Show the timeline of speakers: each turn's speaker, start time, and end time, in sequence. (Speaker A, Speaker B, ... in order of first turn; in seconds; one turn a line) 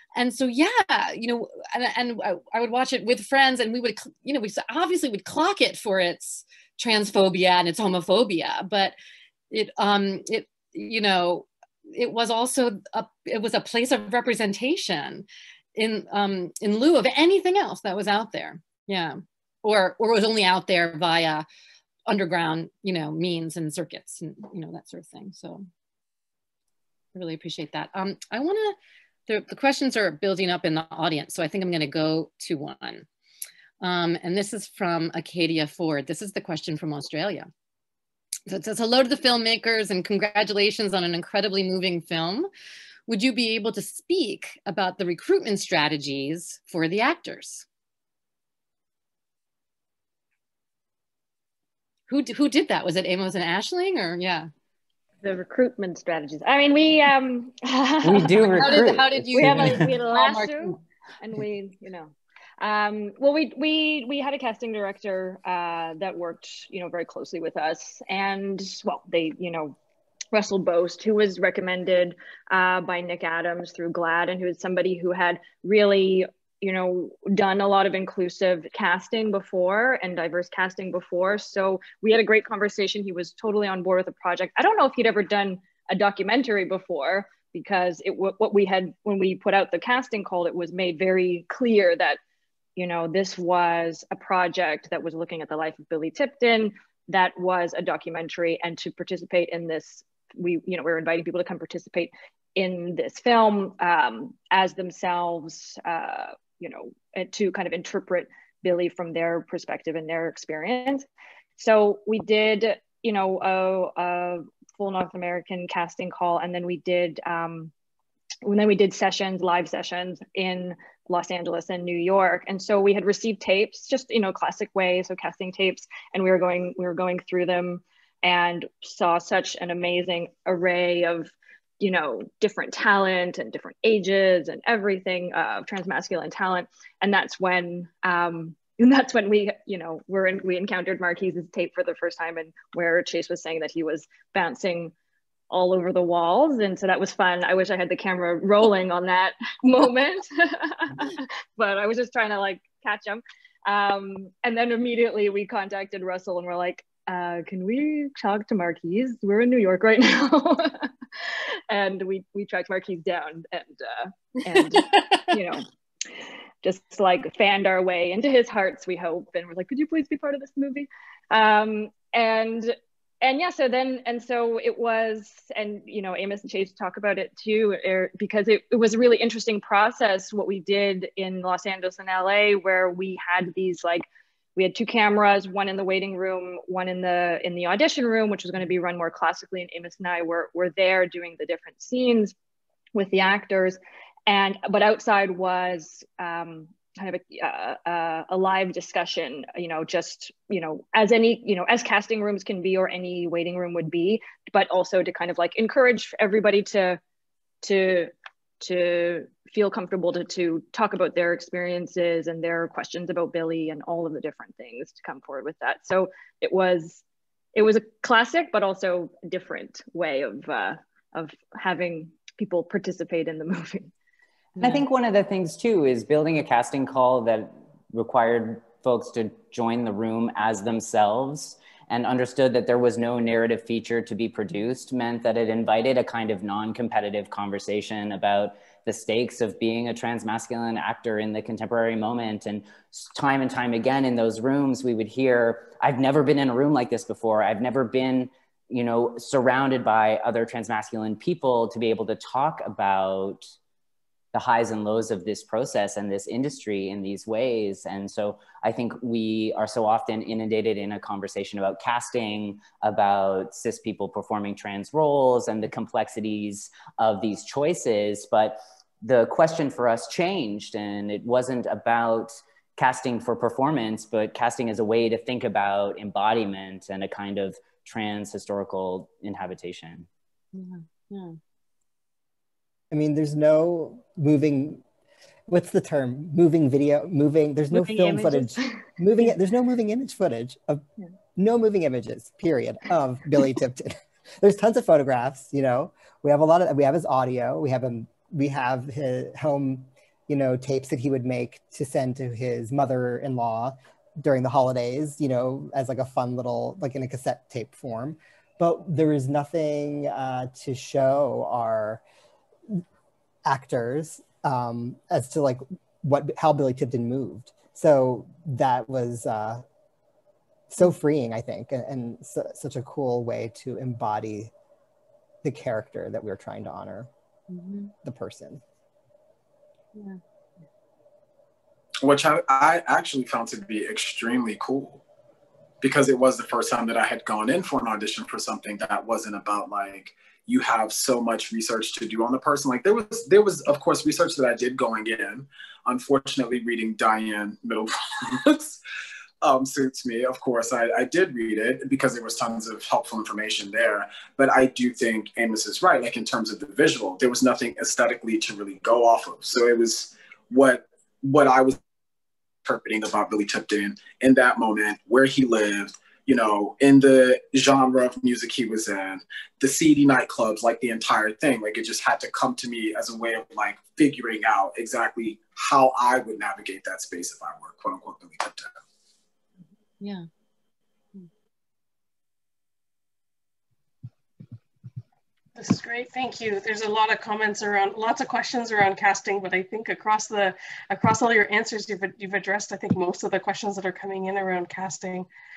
Speaker A: 0.1-8.9
Speaker A: 9.5-21.4
Speaker A: 22.1-25.7
Speaker A: 27.1-28.8
Speaker A: 29.3-33.1
Speaker A: 33.8-37.5
Speaker A: 38.5-42.5
Speaker A: 43.1-47.6
Speaker A: 52.1-54.5
Speaker B: 55.2-69.8
Speaker C: 58.0-59.9
Speaker A: 58.6-60.8
Speaker B: 70.3-92.2
Speaker B: 92.8-111.0
Speaker B: 111.6-117.7
Speaker B: 118.4-144.9
Speaker B: 145.5-165.7
Speaker A: 164.7-165.2
Speaker B: 166.6-184.1
Speaker B: 184.6-192.3
Speaker B: 192.9-207.0
Speaker B: 207.6-217.0
Speaker B: 217.6-223.9
Speaker A: 224.6-224.8
Speaker C: 224.6-253.5
Speaker C: 254.3-280.1
Speaker A: 280.5-281.4
Speaker D: 282.9-284.8
Speaker D: 285.5-290.9
Speaker B: 287.7-288.7
Speaker D: 291.4-312.0
Speaker D: 313.5-319.6
Speaker D: 320.7-324.5
Speaker D: 325.4-327.1
Speaker A: 327.5-327.9
Speaker D: 328.0-328.6
Speaker E: 332.0-335.0
Speaker E: 335.8-348.8
Speaker E: 349.4-361.8
Speaker E: 362.6-378.8
Speaker A: 380.0-380.3
Speaker F: 385.6-395.3